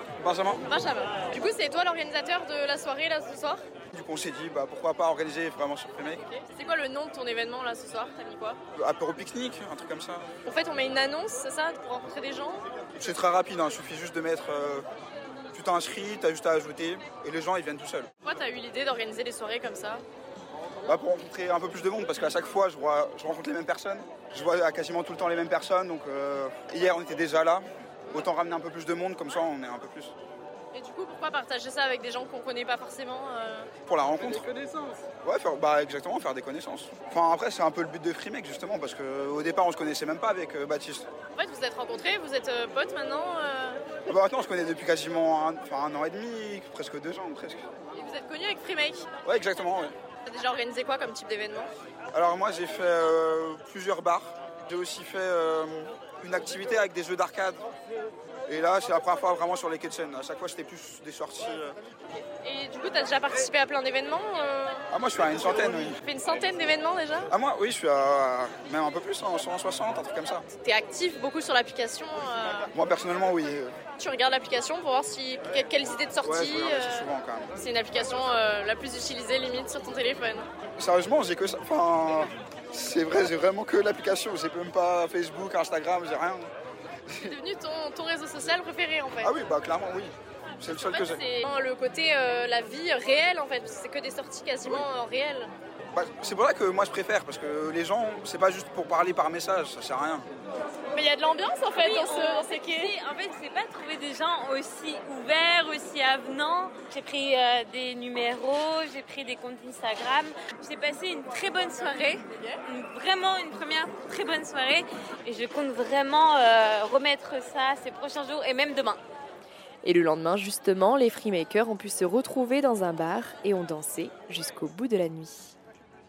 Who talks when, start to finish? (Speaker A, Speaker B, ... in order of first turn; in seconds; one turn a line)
Speaker A: 0.2-0.6
Speaker B: 0.7-3.6
Speaker A: 3.9-6.2
Speaker B: 6.2-8.6
Speaker A: 8.8-10.3
Speaker B: 10.4-12.7
Speaker A: 13.0-14.8
Speaker A: 15.5-18.1
Speaker B: 18.2-20.0
Speaker A: 20.8-30.1
Speaker B: 30.7-33.7
Speaker A: 33.9-34.5
Speaker A: 35.2-41.1
Speaker B: 41.3-43.8
Speaker A: 44.0-47.6
Speaker B: 47.9-49.0
Speaker A: 49.2-49.9
Speaker B: 50.2-51.7
Speaker A: 52.1-57.6
Speaker A: 58.5-61.7
Speaker B: 62.4-64.9
Speaker A: 64.9-66.0
Speaker B: 65.8-67.3
Speaker A: 67.3-70.5
Speaker B: 70.5-72.7
Speaker A: 72.7-73.8
Speaker B: 74.0-80.5
Speaker A: 76.2-77.5
Speaker A: 80.8-86.5
Speaker A: 87.1-87.4
Speaker B: 87.2-89.3
Speaker A: 89.2-91.2
Speaker B: 90.8-95.5
Speaker A: 95.9-100.2
Speaker B: 100.9-102.9
Speaker C: 101.8-119.0
Speaker D: 119.8-125.5